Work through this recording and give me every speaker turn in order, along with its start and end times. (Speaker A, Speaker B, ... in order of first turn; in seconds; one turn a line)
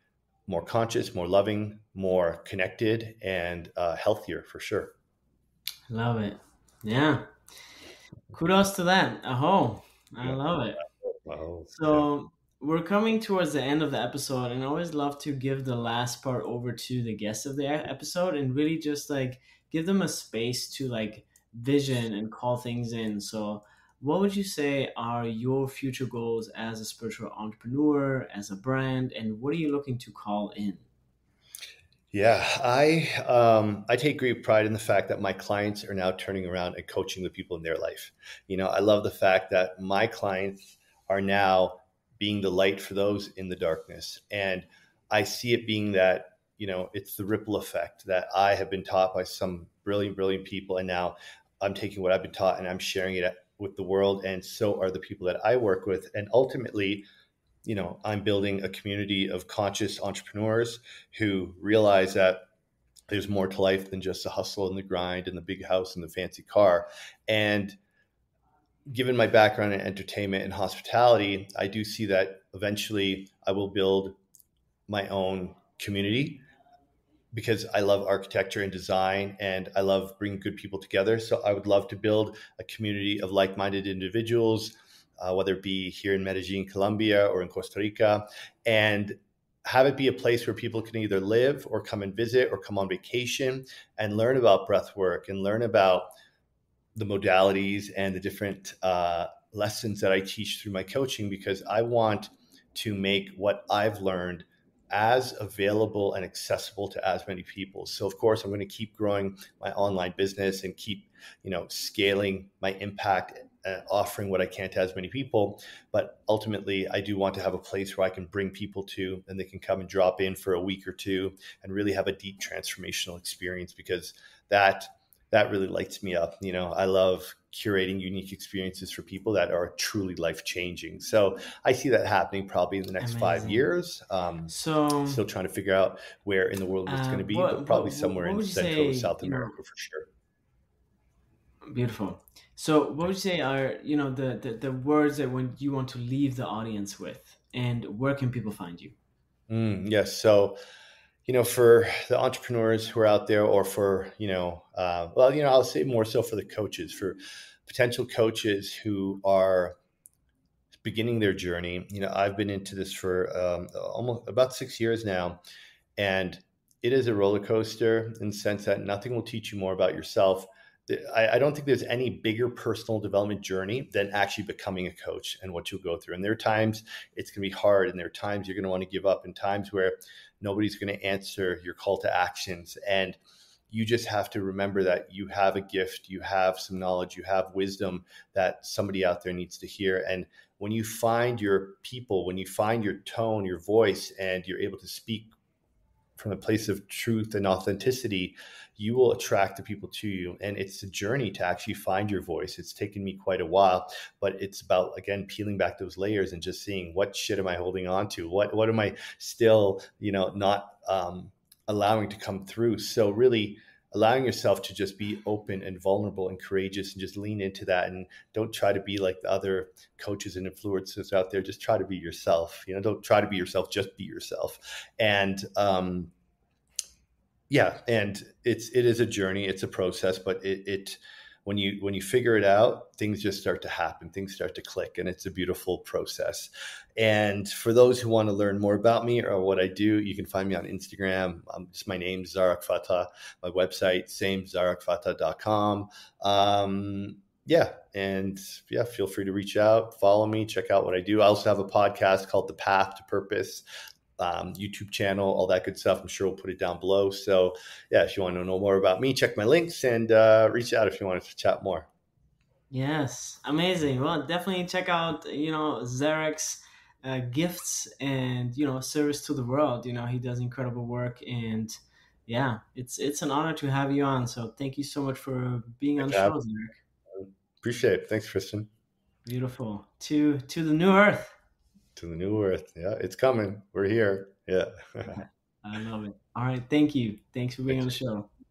Speaker A: 0.5-4.9
Speaker B: 5.9-7.3
Speaker B: 8.3-10.8
Speaker A: 10.2-12.1
Speaker B: 11.7-30.9
Speaker A: 32.1-57.0
Speaker A: 57.6-62.4
Speaker A: 63.1-67.8
Speaker A: 68.9-74.2
Speaker A: 74.9-76.4
Speaker A: 77.3-96.1
Speaker A: 97.0-134.5
Speaker B: 133.0-133.6
Speaker B: 134.5-135.2
Speaker A: 135.1-140.1
Speaker B: 136.9-139.5
Speaker B: 141.7-148.9
Speaker A: 149.5-150.6
Speaker A: 151.3-159.8
Speaker A: 160.7-165.4
Speaker A: 166.0-183.2
Speaker A: 183.7-195.3
Speaker A: 196.2-226.1
Speaker A: 227.5-253.6
Speaker A: 254.2-261.9
Speaker B: 262.7-276.8
Speaker A: 276.0-276.4
Speaker A: 277.1-278.7
Speaker B: 279.3-281.4
Speaker A: 282.0-285.2
Speaker B: 285.0-288.3